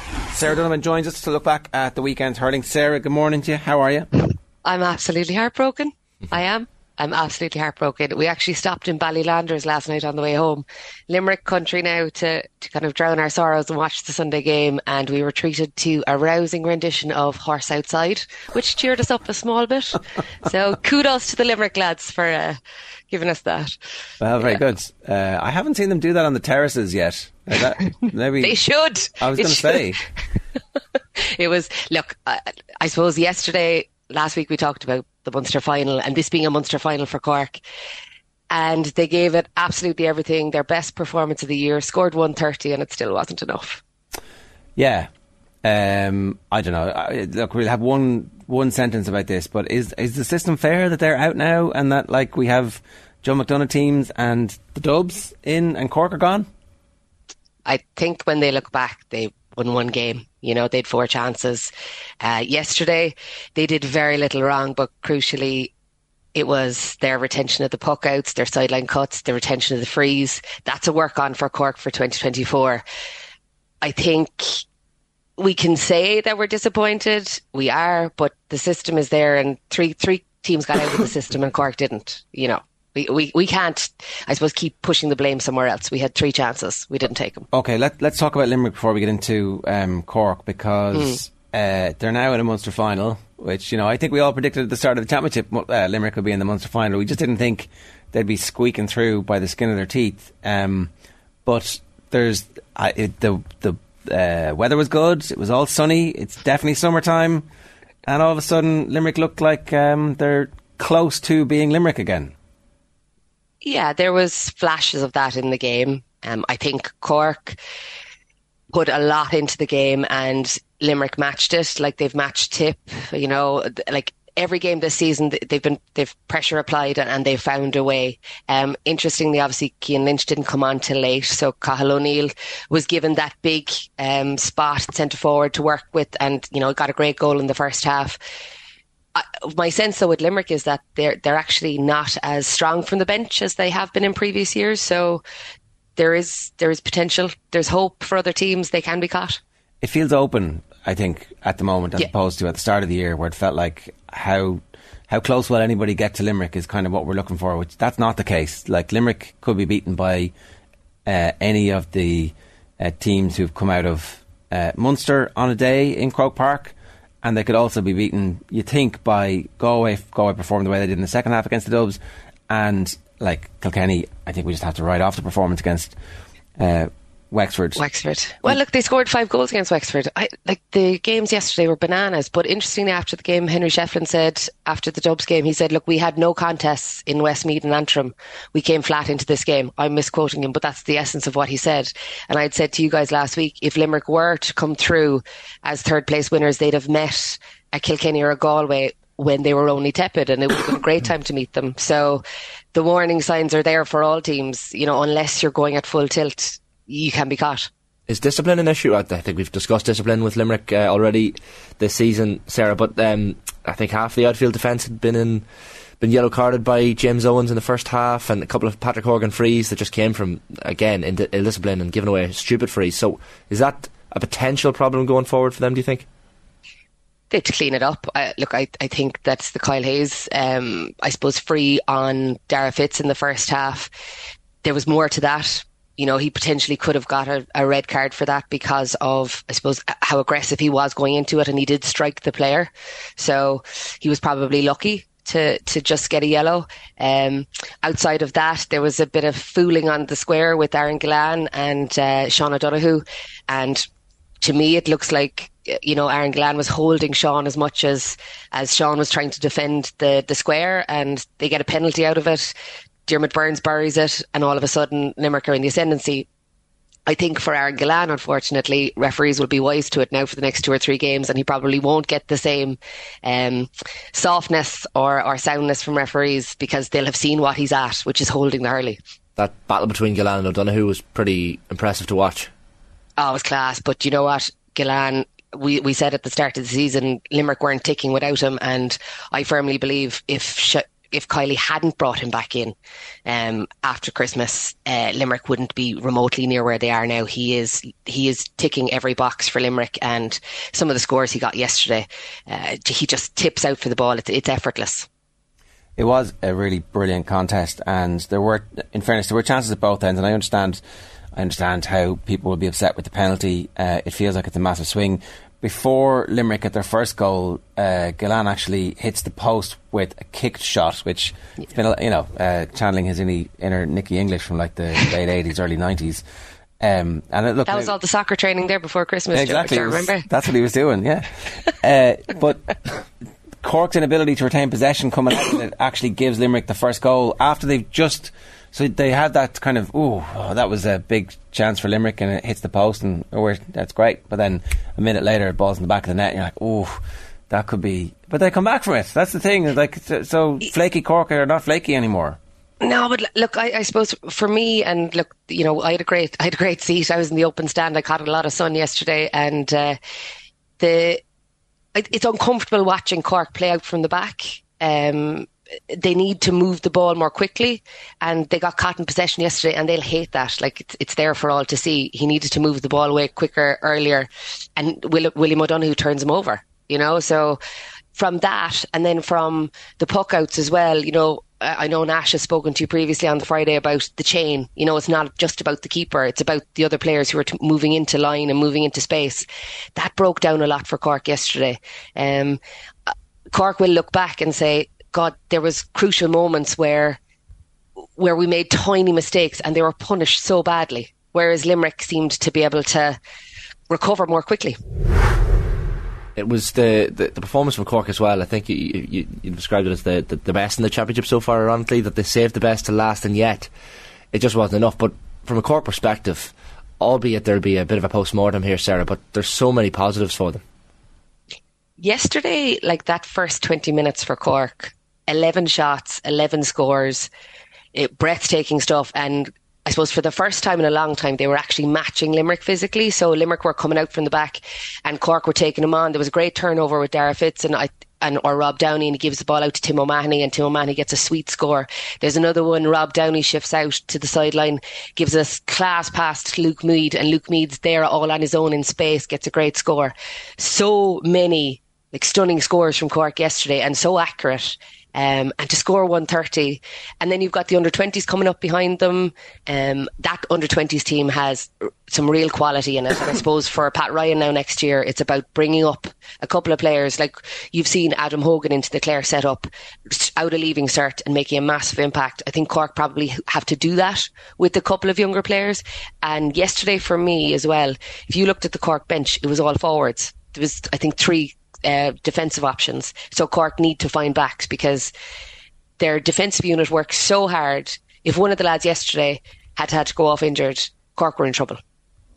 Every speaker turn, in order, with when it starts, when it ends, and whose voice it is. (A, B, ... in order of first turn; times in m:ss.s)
0:00.3-0:04.1 A
0:04.6-0:22.6 B
0:23.1-0:23.8 B
0:24.2-0:28.6 A
0:28.4-0:29.9 B
0:29.2-0:30.0 A
0:31.2-0:37.6 B
0:38.5-0:43.8 B
0:44.8-0:45.1 A
0:45.6-0:56.5 A
0:57.6-1:05.7 B
1:06.3-1:12.8 B
1:13.8-1:14.6 B
1:15.4-1:27.5 B
1:27.5-1:40.9 A
1:41.4-1:47.4 A
1:48.0-1:52.3 A
1:53.6-1:57.6 B
1:58.7-2:18.2 B
2:19.1-2:25.2 B
2:26.0-2:29.4 B
2:29.8-2:40.3 A
2:41.0-2:55.9 A
2:56.6-2:57.8 A
2:57.8-3:27.7 B
3:28.1-3:35.4 C
3:36.0-3:46.0 C
3:47.3-3:53.9 B
3:54.6-4:13.8 B
4:14.4-4:22.5 B
4:23.1-4:26.3 B
4:27.1-4:39.0 B
4:39.4-4:42.5 C
4:43.2-4:52.8 B
4:53.2-5:05.1 B
5:06.0-5:10.8 A
5:11.3-5:26.2 A
5:26.8-5:27.9 A
5:27.7-5:30.3 B
5:29.3-5:32.8 A
5:33.6-5:52.4 A
5:52.8-6:00.0 B
6:00.8-6:01.2 B
6:01.9-6:17.6 B
6:18.2-6:32.6 B
6:33.5-6:37.2 B
6:38.2-6:43.2 B
6:43.9-6:44.8 B
6:46.4-6:53.7 C
6:54.3-7:00.6 C
7:02.0-7:07.3 B
7:07.9-8:05.1 B
8:06.0-8:11.8 B